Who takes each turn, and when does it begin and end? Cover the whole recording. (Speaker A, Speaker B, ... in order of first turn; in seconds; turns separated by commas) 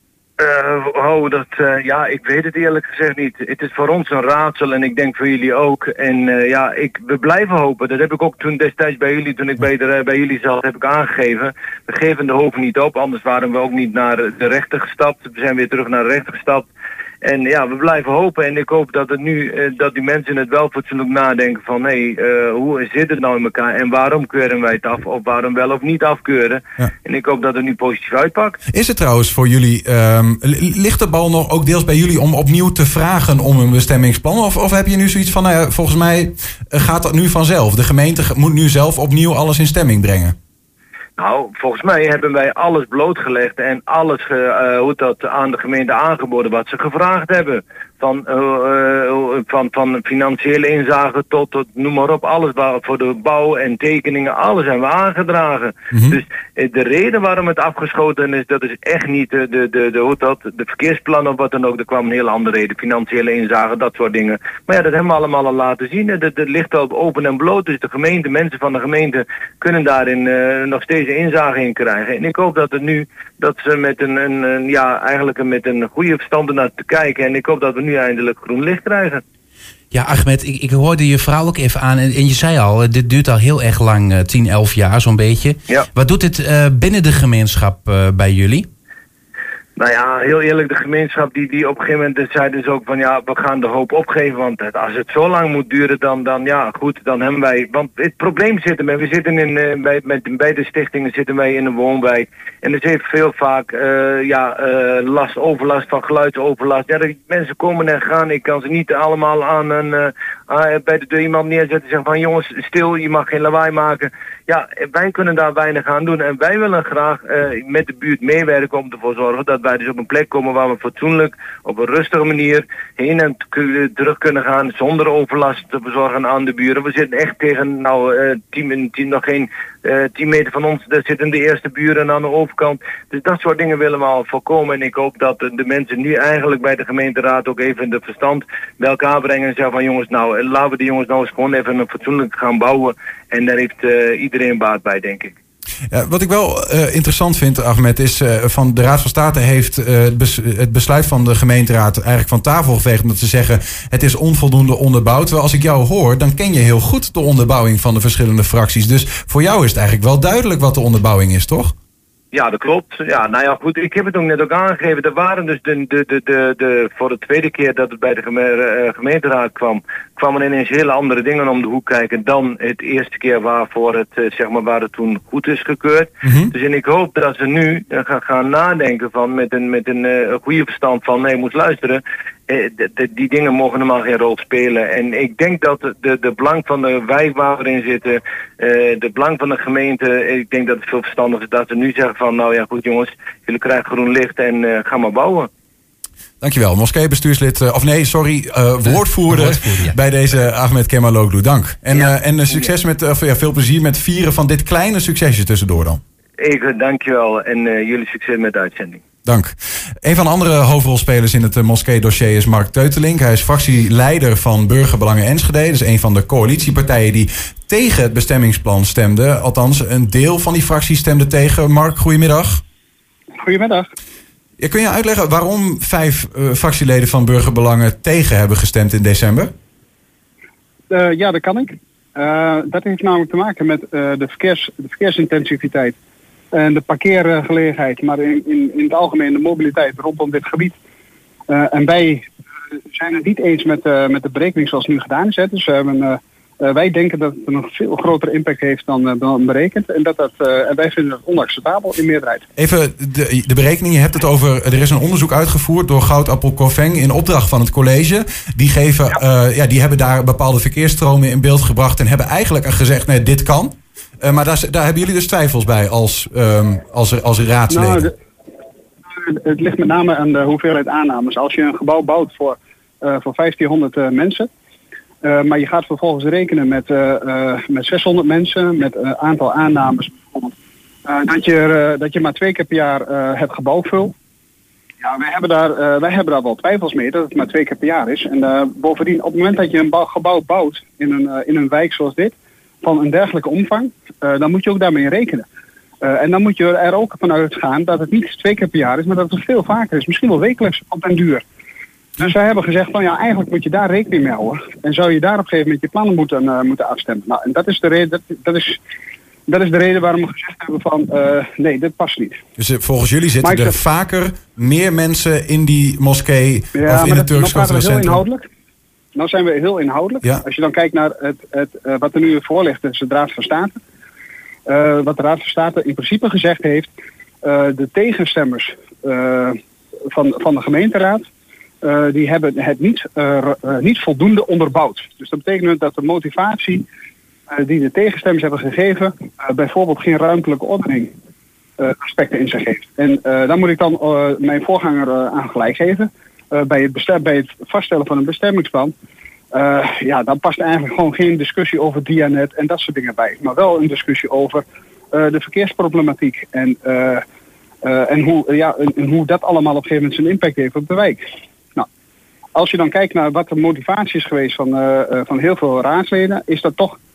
Speaker A: 0.4-16.7, Speaker A: 17.2-28.6, Speaker B: 28.7-40.4, Speaker A: 41.2-79.2, Speaker B: 55.9-56.2, Speaker C: 79.9-88.7, Speaker A: 89.8-145.3, Speaker B: 145.9-161.7, Speaker A: 162.3-195.5, Speaker B: 176.2-176.5, Speaker B: 196.4-206.0, Speaker C: 199.5-199.9, Speaker A: 201.9-202.7, Speaker A: 206.4-209.0, Speaker B: 209.2-222.6, Speaker D: 223.4-223.9, Speaker B: 224.6-229.5, Speaker D: 230.9-236.0, Speaker D: 236.5-240.8, Speaker D: 241.5-242.3, Speaker D: 242.9-252.4, Speaker B: 252.6-268.1, Speaker D: 267.7-268.1, Speaker D: 269.1-274.5, Speaker D: 275.2-280.5, Speaker D: 281.1-284.1, Speaker D: 285.0-295.4, Speaker D: 296.0-301.4, Speaker D: 302.2-308.8, Speaker D: 309.5-312.4, Speaker B: 312.6-318.2, Speaker D: 313.4-313.8, Speaker D: 316.7-318.5, Speaker D: 319.1-323.8, Speaker D: 324.7-326.9, Speaker D: 327.4-331.3, Speaker D: 331.8-336.9, Speaker D: 337.5-341.1, Speaker D: 341.8-348.9, Speaker D: 349.5-357.2, Speaker D: 357.8-361.9, Speaker D: 362.5-367.0